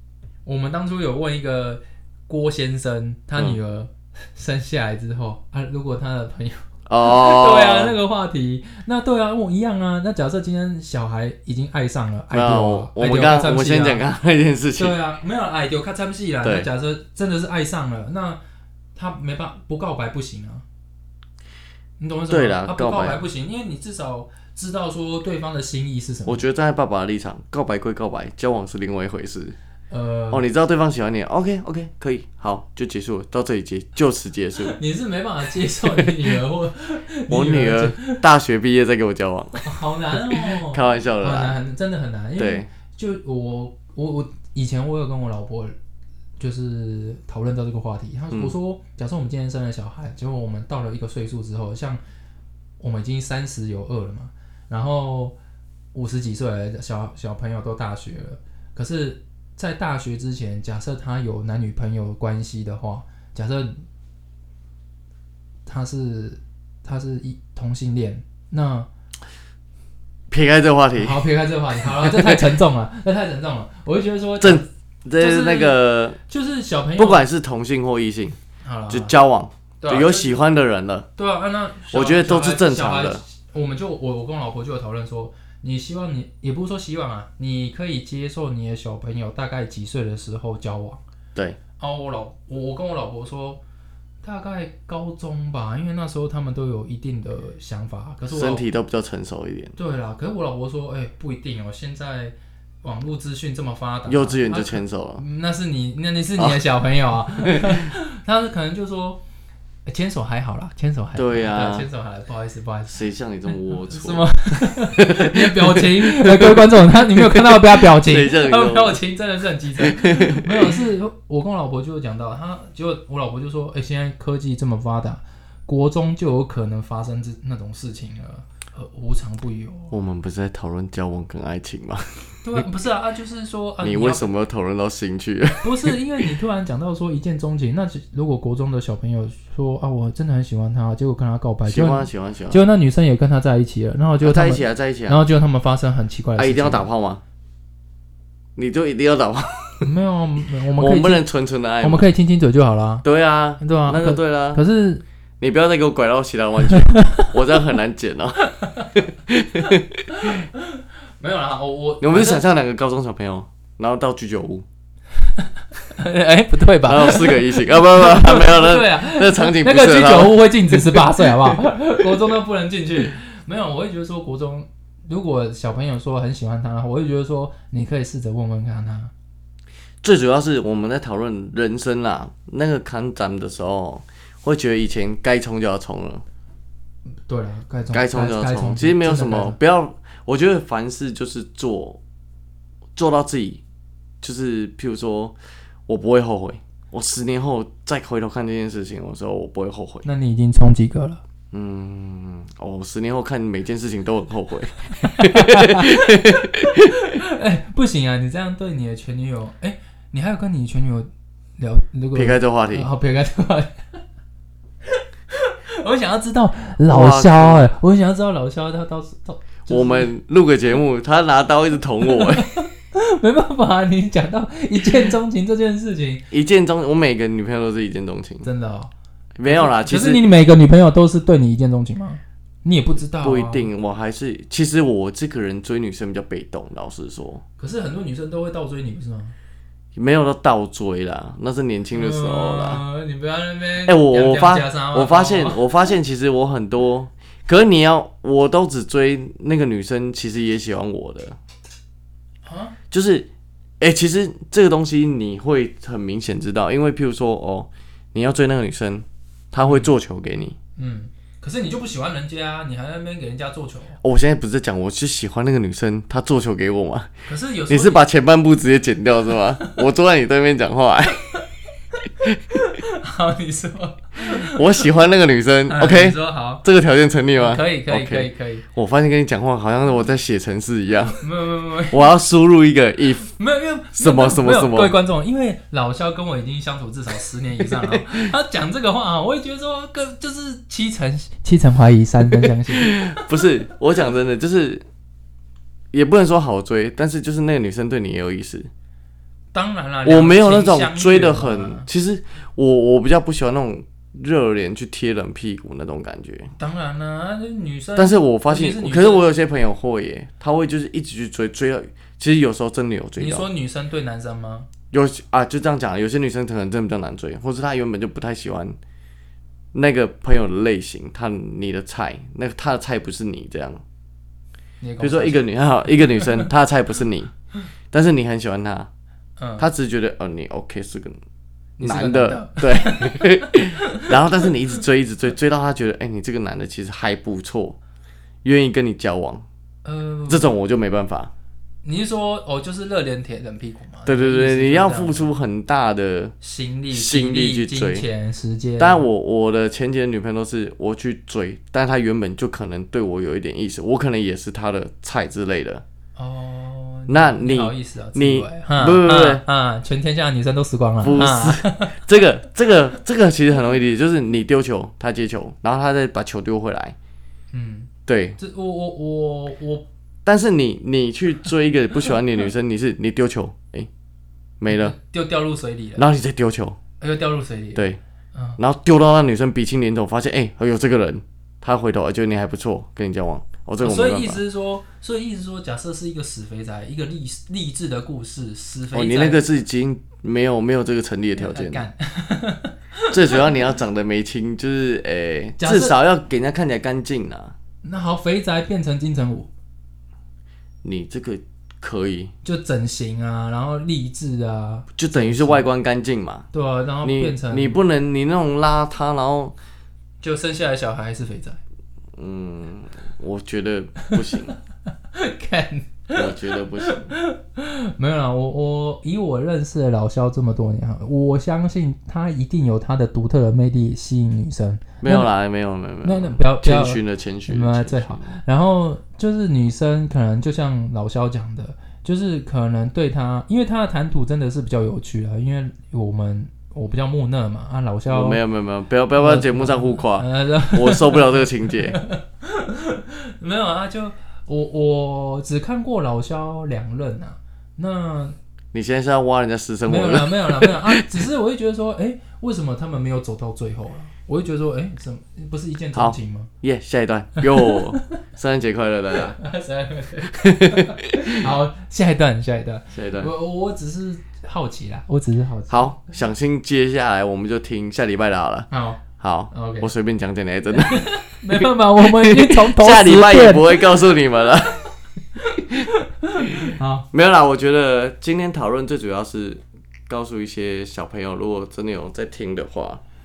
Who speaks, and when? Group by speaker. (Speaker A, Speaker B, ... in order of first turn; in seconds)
Speaker A: 0.5-14.0, 14.8-18.4, 18.9-20.6, 22.0-26.4, 29.9-30.4, 34.6-38.2, 39.6-45.7, 46.4-52.0, 52.8-55.4, 55.9-63.8, 65.7-68.9, 71.0-77.2, 78.6-79.1, 79.8-80.3, 81.2-91.0, 91.8-93.6, 94.2-98.7, 99.8-109.2, 109.9-113.0, 113.7-129.9, 132.4-134.3, 135.6-146.9, 149.8-151.2, 151.8-153.1, 153.6-155.0, 156.7-157.3, 158.4-158.9, 159.6-162.4, 165.4-179.1, 187.3-189.6, 200.1-201.2, 205.0-213.8, 214.9-220.1, 222.1-226.3, 228.4-228.9, 229.5-233.7, 237.6-239.3, 241.9-245.6, 252.4-252.8, 259.6-259.9, 260.8-264.0, 267.3-268.0, 272.5-274.8, 275.7-276.6, 277.4-278.6, 281.2-282.1, 283.3-293.1, 299.5-301.9, 306.6-309.3, 313.2-314.7, 324.8-326.5, 329.4-329.7, 331.8-334.1, 339.8-340.5, 341.8-345.2, 346.4-349.1, 356.2-362.0, 367.5-369.9, 374.7-376.1, 377.0-378.6, 383.8-389.4, 391.4-393.5, 395.6-395.9, 397.8-399.5, 402.4-405.6, 406.5-407.8, 410.2-411.6, 414.0-414.6, 415.1-425.3, 426.0-438.4, 439.1-448.4, 449.9-456.5, 457.4-458.0, 459.1-465.9, 468.7-469.9, 470.9-474.0, 475.4-477.1
Speaker B: 6.9-8.0, 12.3-15.0, 22.3-23.2, 26.3-29.6, 30.3-34.8, 37.3-41.5, 42.4-42.7, 70.3-71.2, 72.0-72.5, 74.4-76.2, 77.0-78.4, 78.9-81.1, 81.9-83.2, 98.3-99.8, 104.1-105.2, 106.4-106.6, 107.4-107.9, 111.2-111.9, 112.9-119.0, 119.8-120.8, 129.9-132.6, 133.8-135.9, 141.7-142.6, 144.2-145.2, 146.4-147.2, 148.6-149.9, 150.8-152.1, 153.0-154.6, 155.4-160.4, 162.0-164.7, 166.8-172.2, 180.0-186.2, 187.9-192.0, 193.0-193.6, 194.2-195.4, 195.9-200.1, 201.5-206.9, 212.2-212.9, 216.9-217.7, 219.7-222.5, 226.3-228.5, 229.4-230.2, 233.2-237.4, 239.9-242.8, 243.8-251.4, 252.9-253.3, 253.8-260.6, 264.0-267.1, 267.7-271.3, 274.4-281.2, 281.9-283.3, 284.0-285.0, 287.6-288.3, 292.4-294.8, 295.9-298.7, 300.1-306.5, 308.0-313.5, 314.9-318.8, 319.7-323.8, 325.0-327.3, 327.9-328.9, 329.6-331.2, 331.8-337.8, 338.4-339.4, 340.3-341.3, 344.1-346.4, 346.9-348.1, 348.8-355.8, 357.1-359.4, 361.0-367.0, 368.1-368.4, 370.2-373.9, 374.6-374.9, 376.0-376.8, 378.6-384.4, 388.9-391.9, 393.1-397.5, 400.8-402.3, 405.0-406.5, 407.0-409.6, 412.2-414.5, 416.1-417.1, 425.0-428.4, 438.1-442.0, 448.7-450.9, 455.9-459.4, 460.3-461.4, 462.9-463.3, 465.7-474.9, 477.1-483.0